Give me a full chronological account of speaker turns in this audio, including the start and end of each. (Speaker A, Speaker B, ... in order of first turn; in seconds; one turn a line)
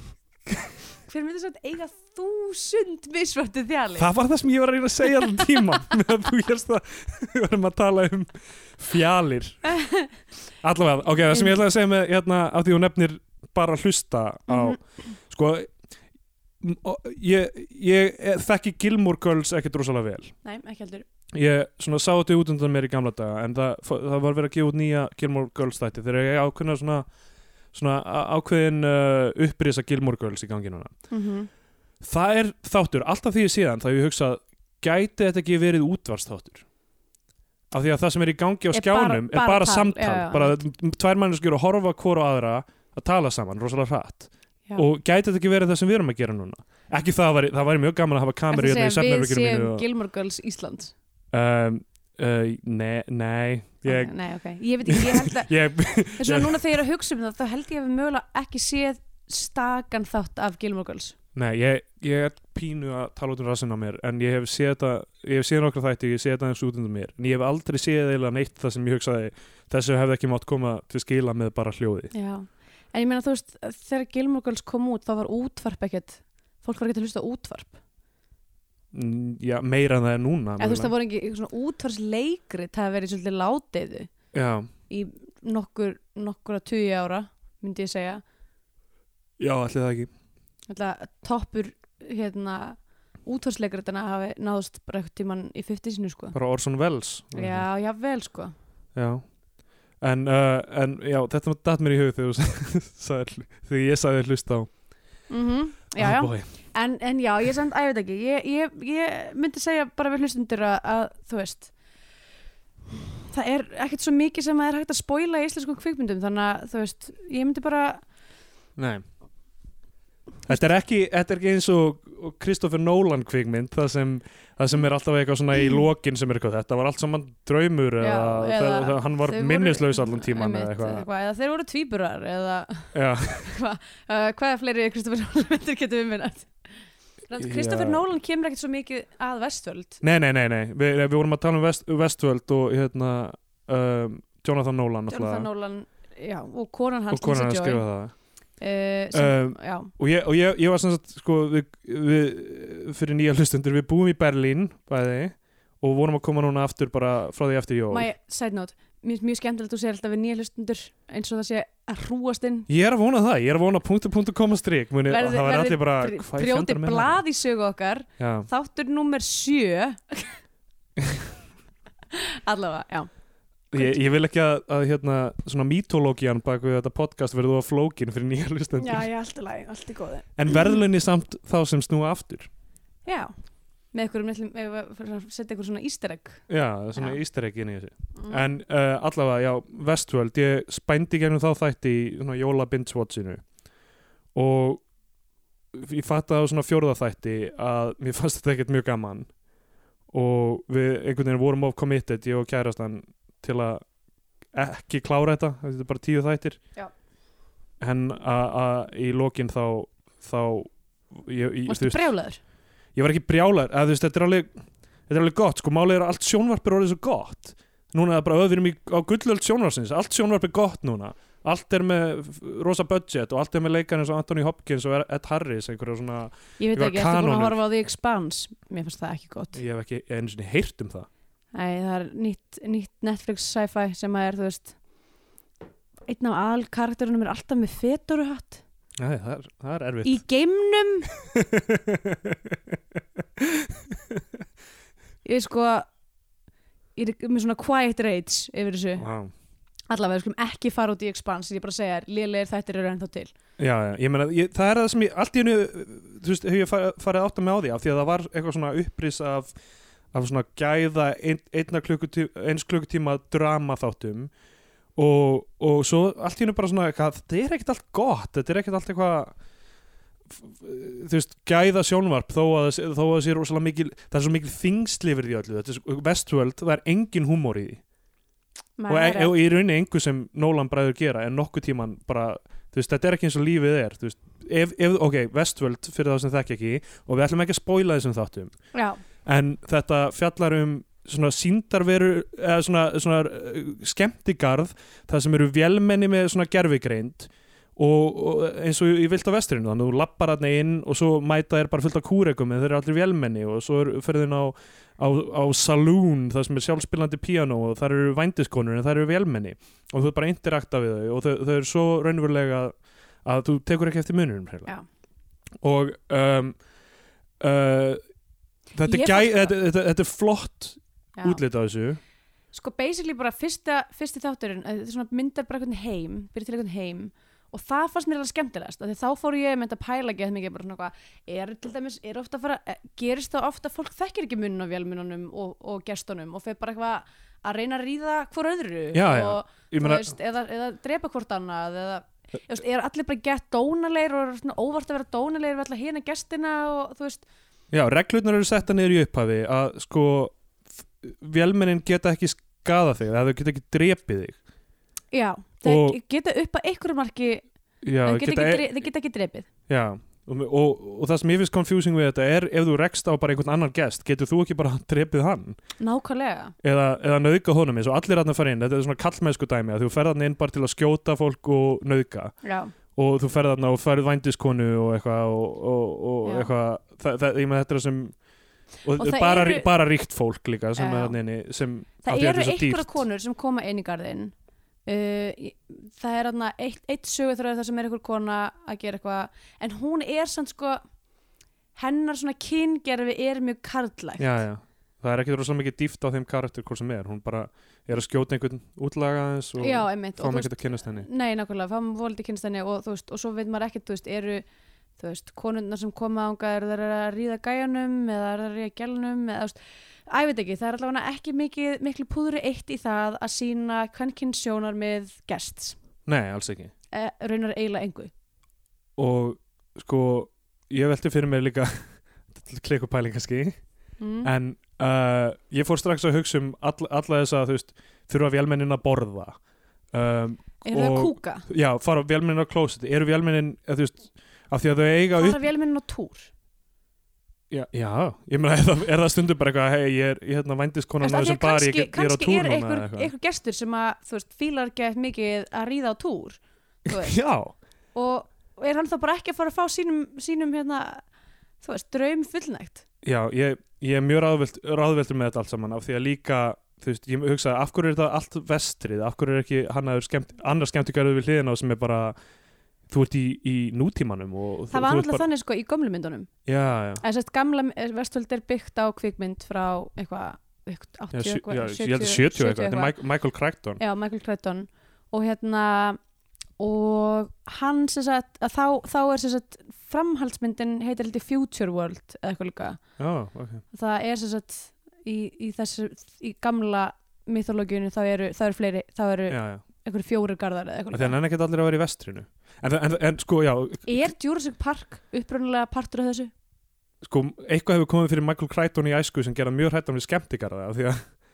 Speaker A: 1.1-4.1
Speaker B: 4.0-9.7
Speaker A: 9.7-10.1
Speaker B: 10.6-15.7
Speaker A: 14.5-14.8
Speaker B: 16.6-20.3
Speaker A: 20.4-21.0
Speaker B: 21.3-27.1
Speaker B: 27.7-30.9
Speaker A: 31.1-31.5
Speaker B: 32.0-36.6
Speaker B: 37.7-49.8
Speaker A: 38.7-40.6
Speaker A: 48.5-50.9
Speaker B: 51.3-54.1
Speaker A: 53.8-55.5
Speaker B: 54.9-56.6
Speaker A: 56.1-61.2
Speaker B: 61.3-72.1
Speaker A: 72.1-77.8
Speaker B: 78.9-80.9
Speaker A: 80.6-84.1
Speaker B: 84.3-84.7
Speaker A: 84.9-88.2
Speaker B: 89.4-90.1
Speaker A: 90.7-96.3
Speaker B: 96.3-97.7
Speaker A: 97.3-98.5
Speaker B: 98.9-99.2
Speaker B: 100.0-104.7
Speaker A: 105.3-111.7
Speaker B: 106.0-106.5
Speaker A: 112.9-118.0
Speaker B: 118.8-119.0
Speaker B: 120.5-131.1
Speaker A: 128.0-136.5
Speaker B: 132.9-133.5
Speaker A: 137.3-140.0
Speaker B: 137.3-138.0
Speaker B: 140.0-145.5
Speaker A: 145.1-147.8
Speaker B: 147.1-148.1
Speaker A: 148.6-149.9
Speaker B: 149.1-158.1
Speaker A: 157.9-162.7
Speaker B: 162.7-167.2
Speaker A: 165.1-170.4
Speaker B: 168.2-168.5
Speaker B: 171.0-171.3
Speaker A: 172.1-173.1
Speaker B: 173.7-179.1
Speaker A: 178.8-180.6
Speaker B: 180.3-182.5
Speaker A: 183.1-183.3
Speaker A: 183.9-187.2
Speaker B: 186.5-193.4
Speaker A: 188.2-188.4
Speaker B: 194.3-194.8
Speaker B: 195.7-199.3
Speaker B: 200.1-203.8
Speaker B: 204.5-206.6
Speaker B: 207.8-212.1
Speaker A: 211.7-212.4
Speaker B: 212.9-214.5
Speaker B: 215.1-227.6
Speaker A: 226.6-229.6
Speaker B: 229.5-231.1
Speaker A: 231.5-234.7
Speaker A: 236.1-238.6
Speaker B: 239.0-240.2
Speaker A: 240.0-241.1
Speaker B: 241.2-242.8
Speaker B: 243.4-244.2
Speaker A: 245.2-245.9
Speaker A: 246.9-249.1
Speaker B: 249.0-249.3
Speaker A: 249.9-253.3
Speaker B: 253.6-259.5
Speaker B: 260.1-264.3
Speaker B: 264.9-269.3
Speaker B: 270.3-277.8
Speaker A: 278.8-279.3
Speaker B: 278.9-288.5
Speaker A: 288.7-289.0
Speaker B: 289.2-314.7
Speaker B: 315.6-316.6
Speaker B: 317.4-318.0
Speaker B: 318.7-322.0
Speaker A: 318.8-319.5
Speaker A: 322.5-347.2
Speaker B: 338.9-340.1
Speaker B: 347.7-350.4
Speaker B: 351.0-354.4
Speaker A: 355.1-357.4
Speaker B: 355.6-356.0
Speaker B: 357.8-358.8
Speaker A: 358.0-359.5
Speaker B: 359.7-365.6
Speaker A: 365.8-366.5
Speaker B: 366.6-372.3
Speaker A: 372.4-372.7
Speaker B: 372.9-378.1
Speaker A: 376.2-376.5
Speaker B: 378.8-383.0
Speaker A: 379.0-379.7
Speaker A: 380.8-381.1
Speaker A: 382.0-384.3
Speaker A: 384.9-390.8
Speaker A: 391.7-394.4
Speaker B: 394.2-401.1
Speaker A: 399.6-404.4
Speaker A: 405.0-409.6
Speaker A: 410.1-415.8
Speaker B: 416.1-416.7
Speaker A: 416.9-418.1
Speaker B: 419.0-423.6
Speaker A: 424.0-424.3
Speaker B: 424.2-429.4
Speaker B: 429.9-435.4
Speaker A: 430.6-431.5
Speaker A: 435.1-436.3
Speaker B: 437.5-443.1
Speaker A: 441.0-447.1
Speaker B: 446.9-447.5
Speaker A: 447.9-451.0
Speaker A: 451.6-452.8
Speaker B: 453.0-462.1
Speaker B: 462.9-465.2
Speaker A: 464.7-466.3
Speaker B: 466.4-467.0
Speaker A: 467.0-472.9
Speaker B: 471.1-473.8
Speaker A: 473.8-476.0
Speaker A: 476.6-482.8
Speaker B: 483.0-483.6
Speaker A: 483.7-491.1
Speaker B: 489.3-489.6
Speaker B: 490.9-494.1
Speaker A: 493.9-496.3
Speaker B: 497.0-501.1